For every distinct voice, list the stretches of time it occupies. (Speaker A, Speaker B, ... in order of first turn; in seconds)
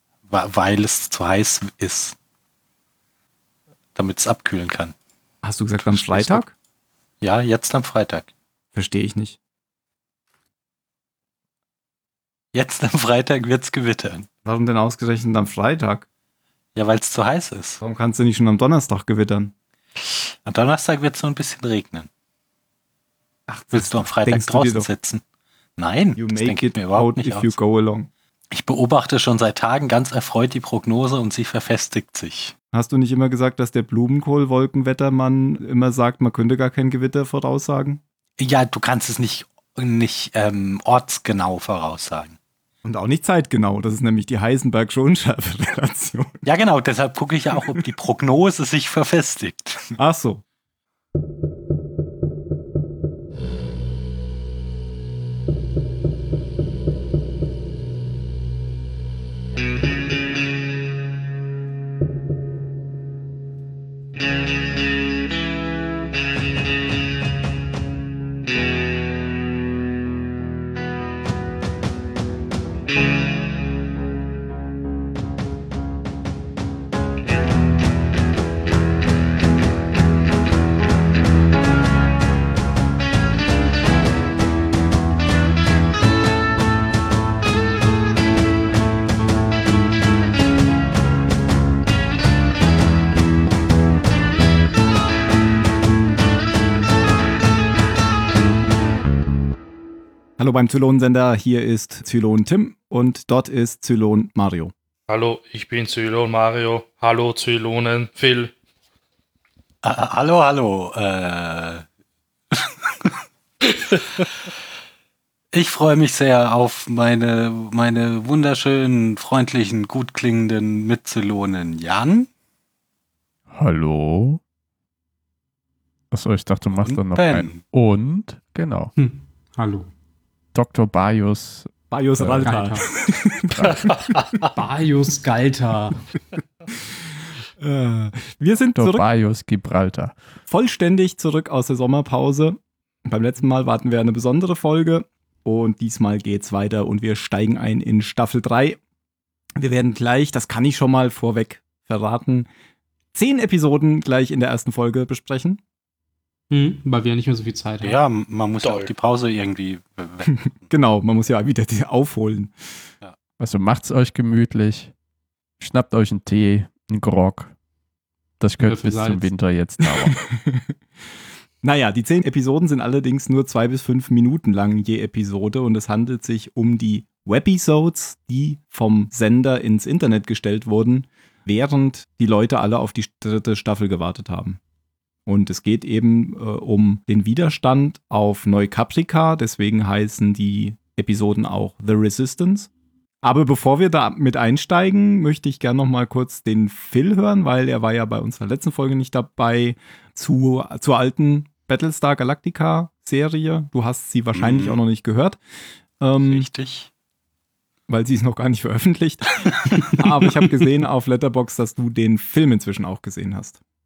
Speaker A: 0.3-2.2, 4.0-4.9, 5.8-6.5, 7.2-8.3, 12.5-14.3, 16.8-17.8, 20.0-22.1, 23.7-25.2, 25.8-27.6, 28.5-32.5, 38.4-42.4, 46.4-49.9, 109.8-111.8, 112.5-113.1, 115.5-122.3, 126.8-127.6, 157.8-160.4, 204.3-204.8, 206.2-206.9
Speaker B: 5.4-6.5, 8.8-9.4, 14.4-16.1, 17.8-19.5, 23.5-24.9, 26.1-28.1, 32.7-38.0, 42.8-46.4, 50.0-50.4, 100.4-104.7, 131.9-133.9, 137.6-139.1, 140.5-148.8, 149.6-152.5, 153.1-155.6, 160.3-162.6, 170.0-170.8, 171.6-184.6, 185.3-192.7, 193.2-205.4, 206.0-206.5, 207.9-213.6
Speaker C: 105.1-108.5, 158.6-158.9
Speaker D: 123.5-124.4, 126.1-128.9, 130.5-132.6, 133.5-134.0, 138.8-140.2, 163.4-164.9, 165.6-167.5, 168.4-170.2
Speaker E: 129.0-129.9, 132.4-132.8, 134.5-136.0, 156.5-158.0, 168.6-169.3